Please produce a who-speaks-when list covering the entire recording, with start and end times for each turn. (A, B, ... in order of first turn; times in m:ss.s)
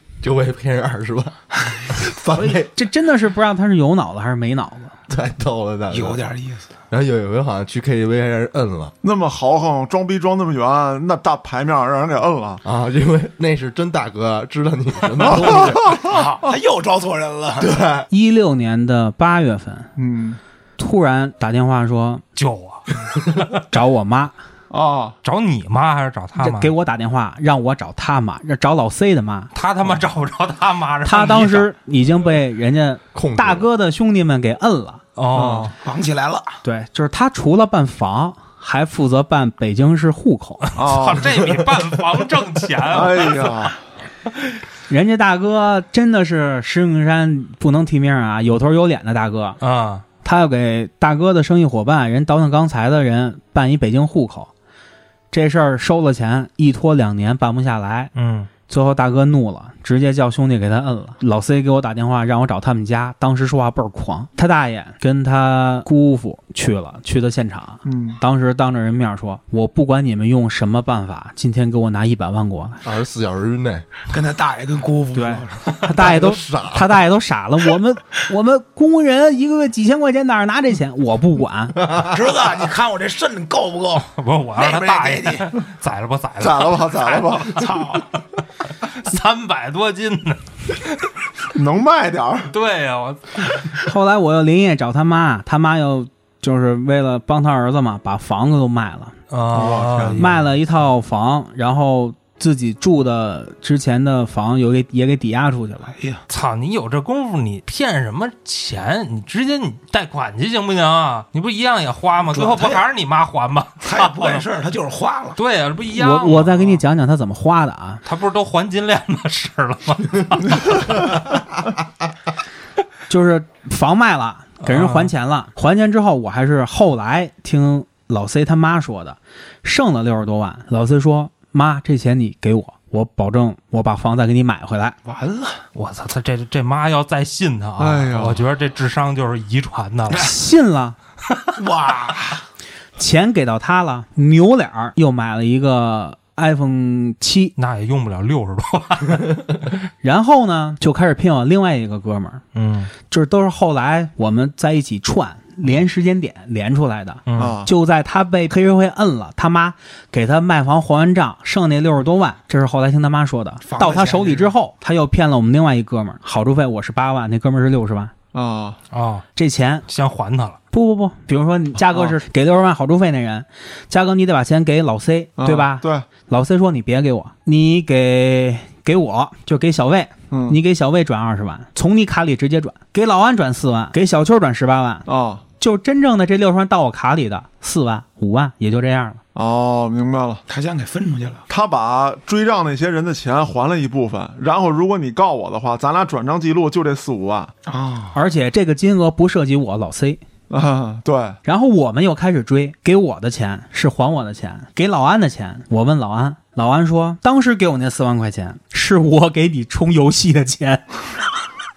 0:00.2-0:01.4 A
0:01.9-0:02.7 A
0:02.3-0:04.9 B
0:05.1-0:06.3 A
0:05.9-0:06.7 C
0:06.9-0:09.0 A
0:09.0-0:12.6 D
0:12.6-0:16.0 A
0:15.2-0:16.2 D
0:16.0-0:17.8 C
0:17.6-0:18.1 A
0:18.1-0:19.9 B
0:20.0-0:20.4 D
0:20.8-0:22.2 B
0:22.4-0:23.5 E
0:23.7-0:24.4 B
0:24.7-0:25.2 D
0:25.2-0:26.7 E
0:26.4-0:29.5 B
0:29.5-0:31.7 E
0:31.0-0:35.0 B
0:33.1-0:33.7 A
0:35.2-0:35.8 E
0:35.3-0:35.7 D
0:35.8-0:36.6 C
0:36.6-0:40.7 B
0:40.7-0:43.7 E
0:40.8-0:41.5 D
0:42.9-0:43.8 D
0:44.9-0:49.6 B
0:49.6-0:50.0 E
0:50.2-0:54.5 B
0:55.3-0:58.1 B
0:58.2-0:58.5 E
0:58.7-1:12.8 B
1:07.8-1:08.2 D
1:12.8-1:13.9 A
1:14.1-1:15.8 C
1:15.2-1:21.8 B
1:15.9-1:16.9 A
1:22.0-1:25.5 C
1:24.2-1:27.0 E
1:26.4-1:27.7 D
1:27.1-1:28.1 C
1:28.8-1:30.5 E
1:31.5-1:32.5 D
1:32.5-1:33.5 E
1:33.8-1:39.2 B
1:39.3-1:40.5 E
1:39.5-1:40.3 D
1:40.2-1:45.9 B
1:45.9-1:46.2 C
1:46.3-1:54.4 E
1:52.3-1:52.8 C
1:53.8-1:55.4 C
1:55.4-1:56.8 E
1:55.9-1:58.0 B
1:58.0-2:01.2 E
2:03.1-2:15.0 B
2:04.6-2:05.1 E
2:15.0-2:15.6 C
2:15.8-2:20.3 E
2:17.8-2:18.4 D
2:20.1-2:21.0 B
2:21.6-2:22.4 C
2:23.0-2:27.5 B
2:27.6-2:29.5 E
2:30.0-2:32.4 B
2:32.6-2:32.9 E
2:33.1-2:48.1 B
2:37.3-2:37.6 E
2:37.4-2:37.7 D
2:43.6-2:44.5 C
2:48.3-2:48.8 D
2:48.9-2:49.3 E
2:49.4-2:49.8 B
2:49.9-2:50.6 E
2:50.7-3:05.1 B
2:55.4-2:56.1 D
3:00.3-3:00.6 D
3:05.1-3:05.4 D
3:05.6-3:09.2 B
3:09.4-3:10.4 D
3:10.5-3:11.4 C
3:11.5-3:17.5 D
3:17.7-3:18.2 C
3:18.1-3:20.2 B
3:20.5-3:21.4 D
3:21.4-3:31.0 B